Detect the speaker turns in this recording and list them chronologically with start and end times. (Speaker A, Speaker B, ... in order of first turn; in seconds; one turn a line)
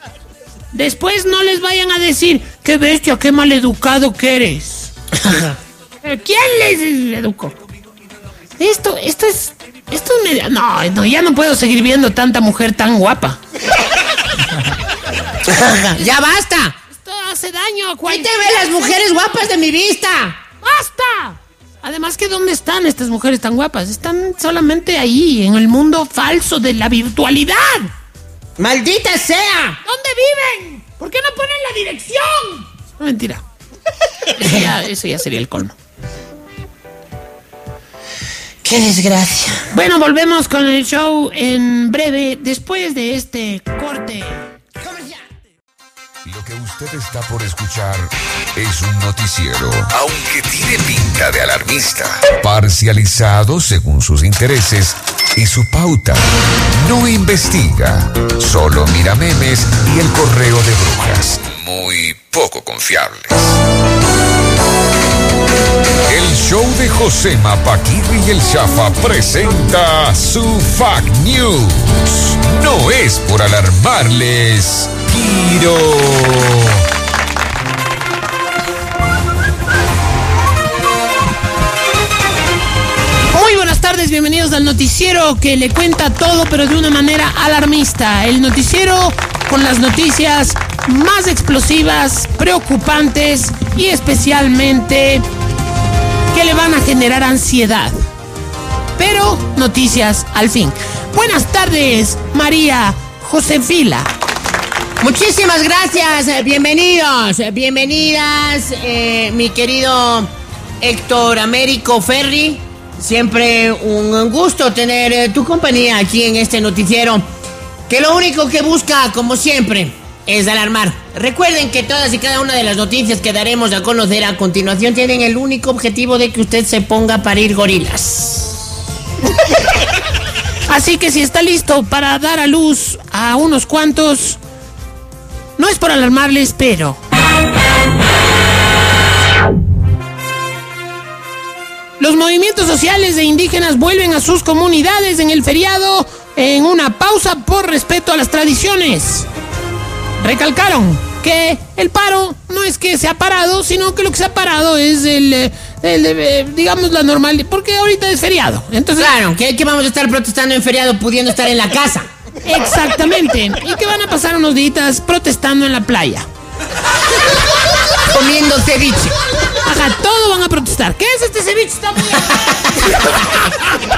Speaker A: 0.7-4.9
Speaker B: 5.1-5.6
Speaker A: 6.0-7.6
Speaker A: 8.6-13.4
Speaker B: 15.4-16.8
Speaker A: 16.9-18.9
Speaker B: 18.1-20.4
Speaker A: 20.6-27.9
Speaker B: 28.6-29.8
Speaker A: 29.9-33.4
Speaker A: 34.3-35.8
Speaker B: 38.6-39.7
Speaker A: 39.7-44.5
Speaker B: 44.8-45.2
Speaker C: 46.2-63.6
Speaker C: 66.1-76.8
Speaker A: 83.3-95.2
Speaker A: 96.3-98.0
Speaker A: 99.0-104.1
Speaker B: 105.0-117.2
Speaker B: 117.9-128.7
Speaker A: 130.7-134.4
Speaker A: 135.6-137.0
Speaker A: 142.0-149.3
Speaker A: 150.2-159.1
Speaker B: 159.0-162.1
Speaker A: 162.4-166.3
Speaker B: 168.1-169.2
Speaker A: 169.7-173.2
Speaker B: 172.8-173.1